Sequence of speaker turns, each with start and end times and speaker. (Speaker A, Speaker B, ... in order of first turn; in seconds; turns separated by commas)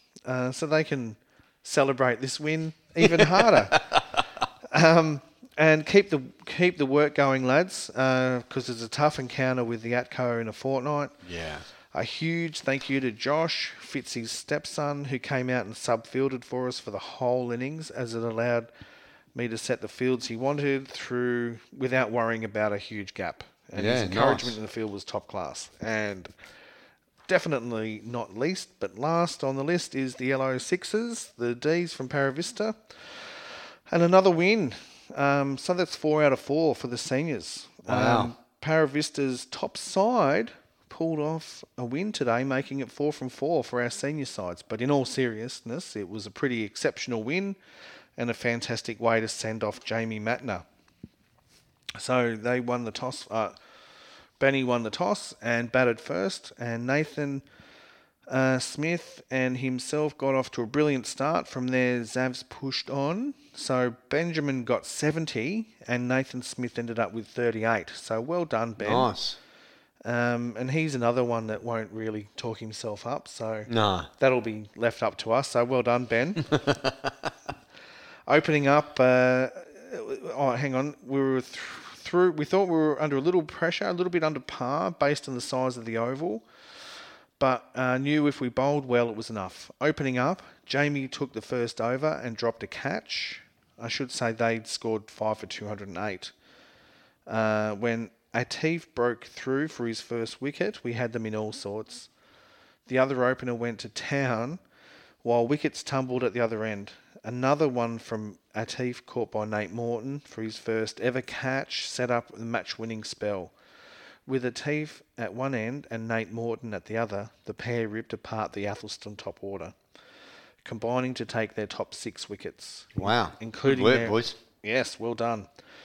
Speaker A: 0.3-4.1, Speaker B: 3.0-4.0, Speaker A: 4.7-11.2, Speaker B: 11.2-11.7, Speaker A: 11.9-18.7, Speaker A: 19.4-26.3, Speaker B: 23.7-24.6, Speaker A: 27.3-33.4, Speaker A: 33.9-47.6, Speaker B: 37.9-38.3, Speaker A: 48.2-50.7, Speaker A: 52.0-53.5, Speaker A: 54.4-57.4, Speaker A: 58.3-69.1, Speaker B: 68.8-69.4, Speaker A: 70.0-76.5, Speaker B: 73.7-74.1, Speaker B: 76.5-77.3, Speaker A: 78.3-86.5, Speaker A: 87.4-96.3, Speaker A: 97.3-102.1, Speaker A: 102.9-104.6, Speaker A: 105.2-113.5, Speaker A: 114.3-119.8, Speaker A: 120.7-125.5, Speaker B: 123.0-124.4